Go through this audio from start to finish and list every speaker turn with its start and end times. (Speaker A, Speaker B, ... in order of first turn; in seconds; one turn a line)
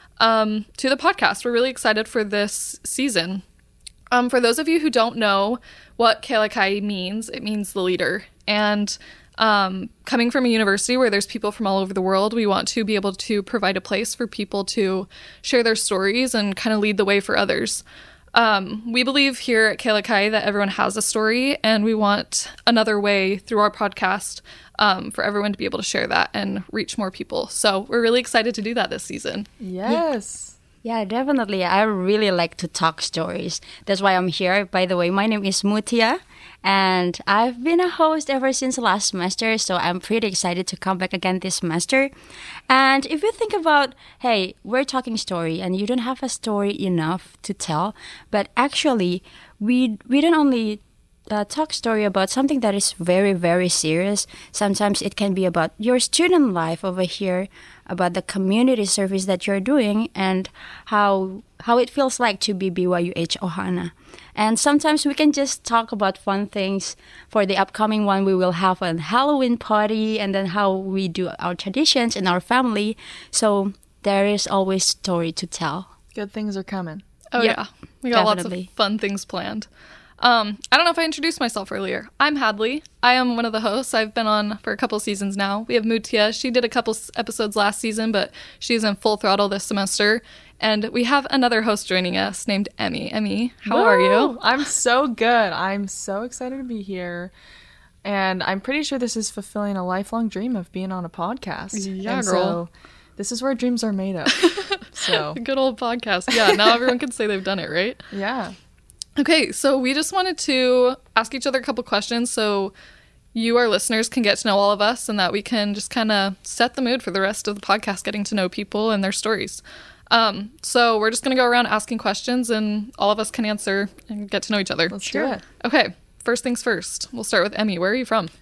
Speaker A: 0.2-3.4
Speaker A: 4.1-29.5
Speaker B: 29.6-30.6
Speaker C: 30.8-42.1
Speaker C: 42.7-75.9
Speaker B: 76.1-77.0
Speaker A: 77.3-79.7
Speaker C: 78.1-78.7
Speaker A: 80.2-94.4
Speaker B: 93.7-97.3
Speaker B: 98.0-105.4
Speaker A: 101.7-102.6
Speaker A: 104.4-108.0
Speaker B: 106.3-106.9
Speaker B: 108.1-108.5
Speaker A: 109.2-112.7
Speaker A: 113.3-125.0
Speaker B: 124.9-125.4
Speaker C: 125.0-125.4
Speaker A: 125.6-128.3